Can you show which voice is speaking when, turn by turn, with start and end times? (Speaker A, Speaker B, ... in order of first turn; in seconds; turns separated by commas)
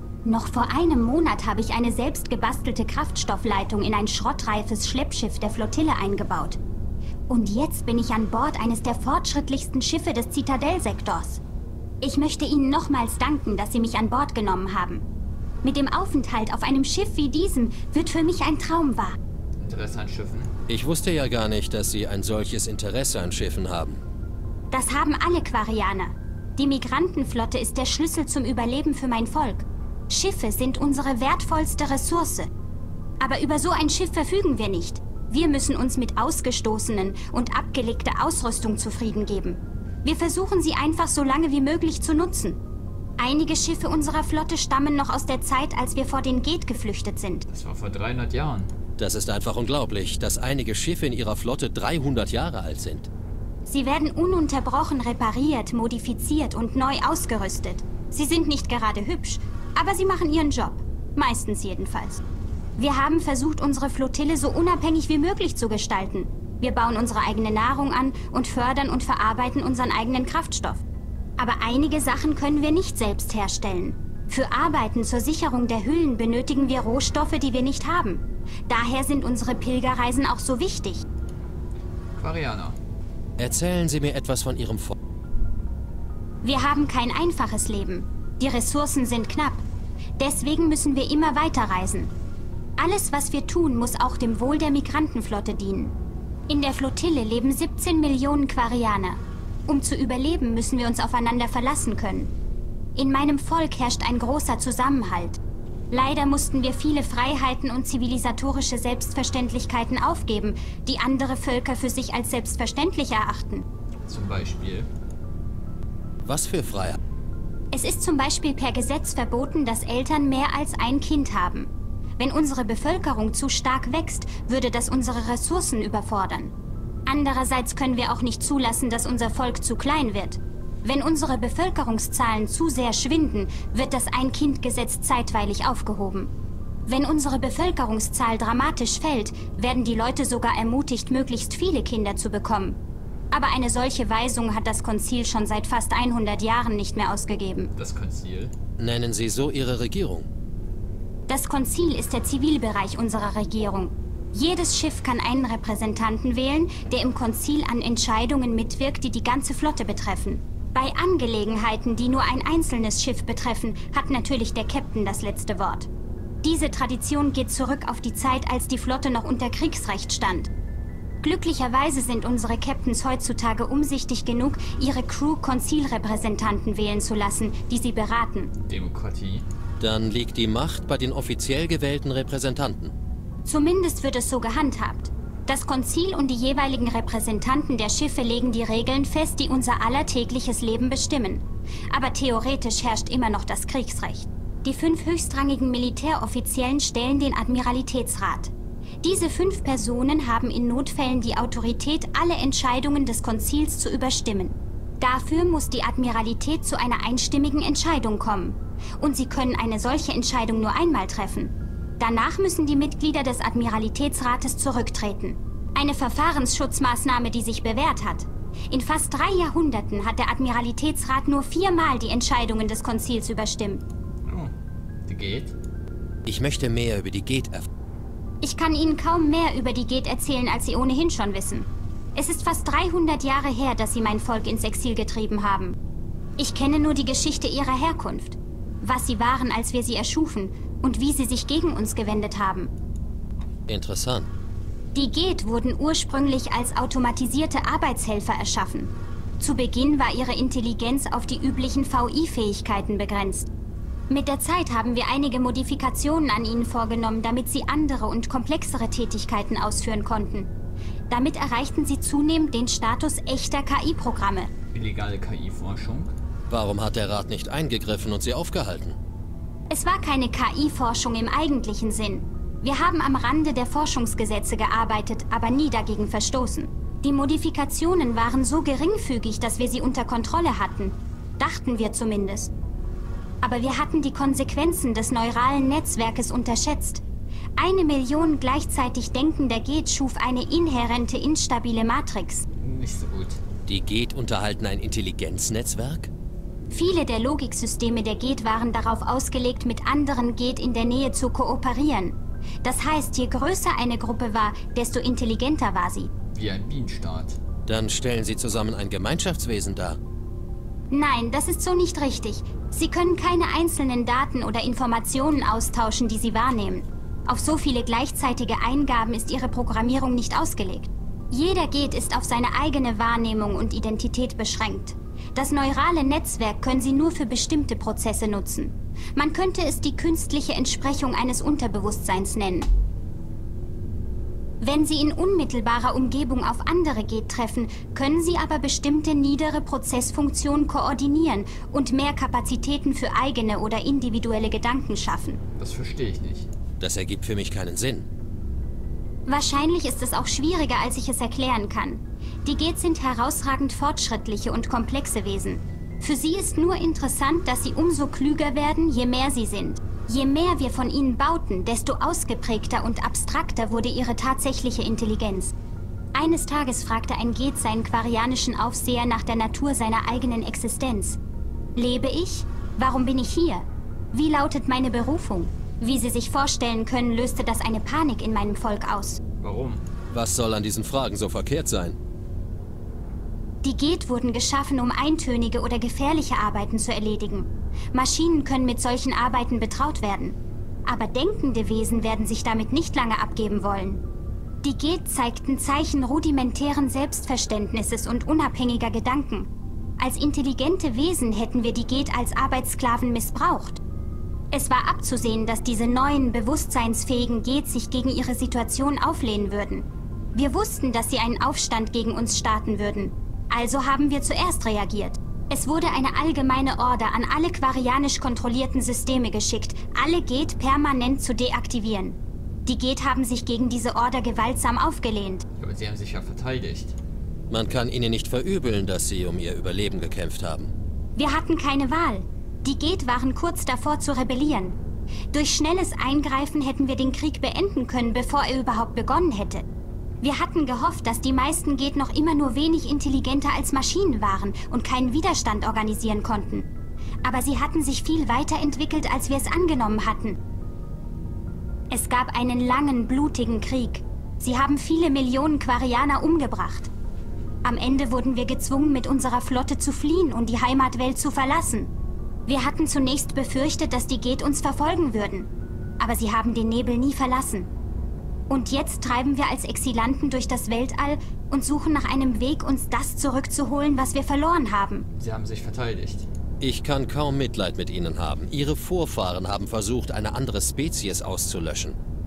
Speaker A: 0.2-6.6, Speaker A: 7.3-11.4, Speaker A: 12.0-15.0, Speaker A: 15.6-19.2, Speaker B: 19.6-20.5, Speaker C: 20.7-24.0, Speaker A: 24.7-32.5, Speaker A: 33.2-42.6, Speaker A: 43.2-47.5, Speaker B: 47.5-48.7, Speaker C: 49.0-53.1, Speaker A: 53.6-62.2, Speaker A: 62.8-70.8, Speaker A: 71.4-81.0, Speaker B: 82.2-82.8, Speaker C: 83.4-84.9, Speaker A: 86.4-89.6, Speaker A: 90.2-92.1, Speaker A: 92.8-95.9, Speaker A: 96.5-102.3, Speaker A: 102.9-105.4, Speaker A: 105.9-113.6, Speaker B: 114.0-114.9, Speaker C: 116.2-117.0, Speaker A: 117.7-126.5, Speaker A: 127.1-136.3, Speaker A: 136.9-142.8, Speaker A: 143.3-147.7, Speaker B: 147.8-148.5, Speaker C: 148.8-150.3, Speaker A: 151.3-165.9, Speaker A: 166.4-170.5, Speaker A: 171.2-178.5, Speaker B: 178.7-179.4, Speaker C: 179.8-182.9, Speaker A: 183.4-198.5, Speaker A: 199.0-223.8, Speaker B: 224.2-224.5, Speaker B: 225.1-225.6, Speaker C: 226.2-227.7, Speaker A: 228.4-235.8, Speaker A: 236.4-242.7, Speaker C: 243.7-244.3, Speaker A: 244.9-253.5, Speaker A: 254.1-260.5, Speaker A: 261.1-264.5, Speaker B: 264.7-266.1, Speaker C: 266.5-269.0, Speaker A: 269.7-282.5, Speaker A: 283.4-287.0, Speaker A: 287.6-292.4, Speaker B: 292.6-293.4, Speaker C: 293.6-296.1, Speaker A: 296.7-306.1, Speaker B: 306.3-307.4, Speaker C: 307.7-310.0, Speaker A: 310.9-332.7, Speaker A: 334.6-345.4, Speaker B: 345.6-346.5, Speaker C: 346.8-348.1, Speaker A: 349.3-365.5, Speaker A: 366.1-371.2, Speaker A: 371.8-379.2, Speaker B: 379.4-379.8, Speaker C: 380.1-382.0, Speaker A: 383.6-394.0, Speaker A: 394.6-403.8, Speaker A: 404.5-425.4, Speaker B: 425.6-426.9, Speaker C: 427.5-430.7, Speaker A: 431.1-434.8, Speaker A: 435.3-439.6, Speaker A: 440.2-446.7, Speaker A: 447.2-450.4, Speaker A: 451.9-456.9, Speaker A: 457.6-461.9, Speaker A: 462.5-467.7, Speaker A: 468.5-475.1, Speaker B: 475.2-476.3, Speaker C: 476.6-482.0